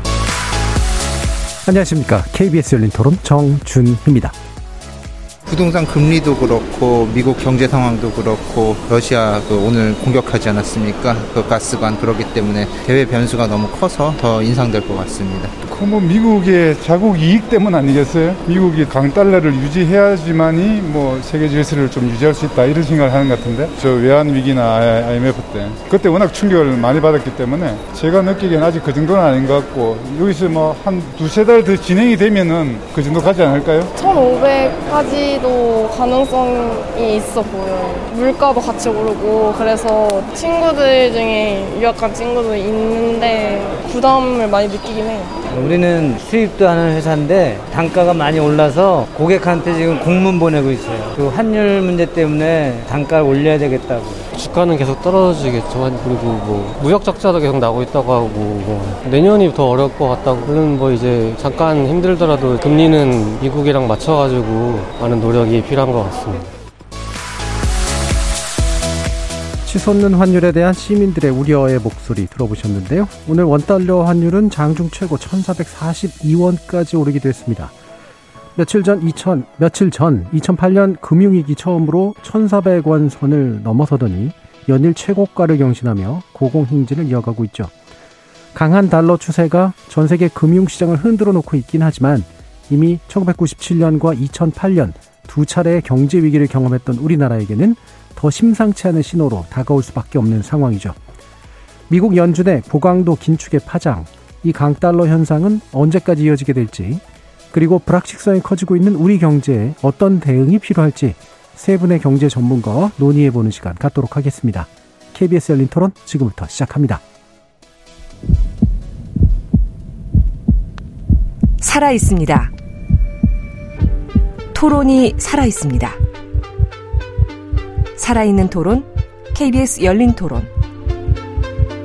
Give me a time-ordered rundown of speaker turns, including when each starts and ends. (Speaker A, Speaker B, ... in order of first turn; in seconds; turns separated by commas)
Speaker A: 1.6-4.3, Speaker B: 5.5-15.5, Speaker C: 15.7-33.9, Speaker D: 34.0-45.3, Speaker E: 45.5-54.3, Speaker F: 54.3-66.5, Speaker A: 69.6-77.7, Speaker A: 78.5-87.7, Speaker A: 88.5-101.0, Speaker A: 101.9-117.0, Speaker G: 121.6-122.5, Speaker G: 124.5-126.0, Speaker G: 128.0-130.5